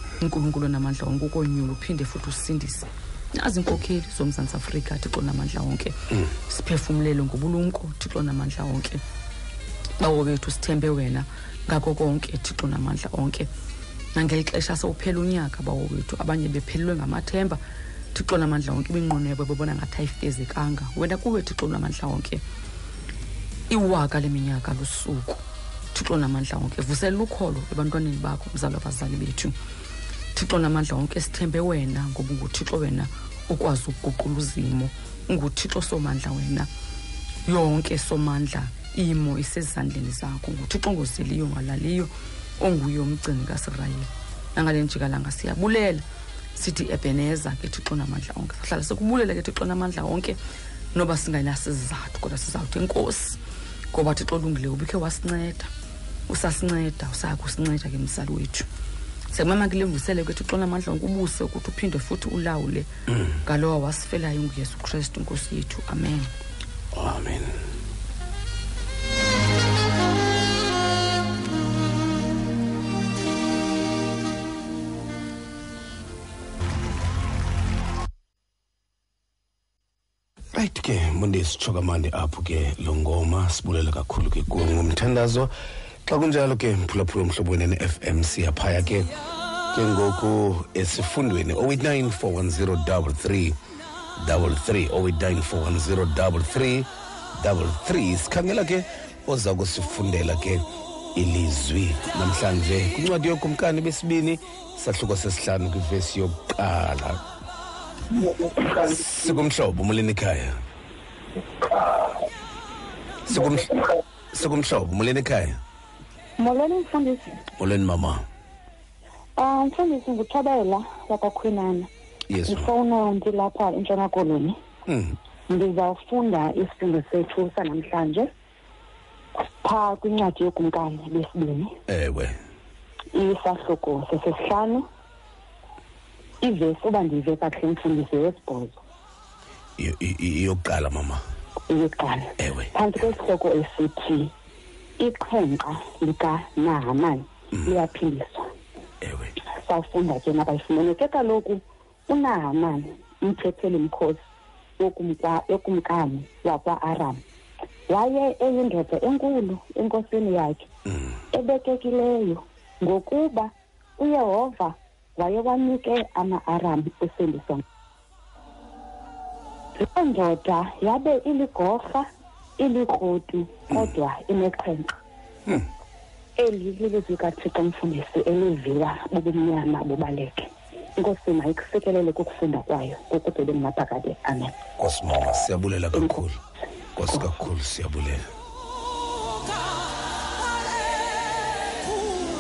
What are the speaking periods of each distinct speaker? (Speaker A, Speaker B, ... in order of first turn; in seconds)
Speaker A: 0.2-9.0, 10.0-13.5, 14.2-17.6, 18.1-22.4, 23.7-25.4, 25.9-29.6, 30.3-36.7, 37.5-46.0, 46.6-50.4, 50.9-53.4, 53.9-55.7, 56.3-58.7, 59.3-62.9, 63.5-66.3
Speaker B: 66.9-67.6, 80.5-85.5, 86.1-89.1, 89.7-93.6, 94.2-107.2, 108.8-110.5, 113.3-113.7, 114.3-115.6, 117.6-118.2, 122.3-122.7, 124.9-125.2, 131.9-132.4, 139.8-141.2, 142.4-143.0, 149.0-149.3, 184.8-186.4, 187.0-188.2
Speaker C: 116.4-117.4, 119.4-121.9, 122.5-124.6, 125.5-128.3, 129.6-131.8, 133.1-134.9, 136.4-138.8, 141.7-144.3, 145.0-148.5, 149.6-154.2, 154.8-157.2, 157.9-160.7, 161.3-167.6, 169.8-174.9, 176.4-184.6, 185.9-186.2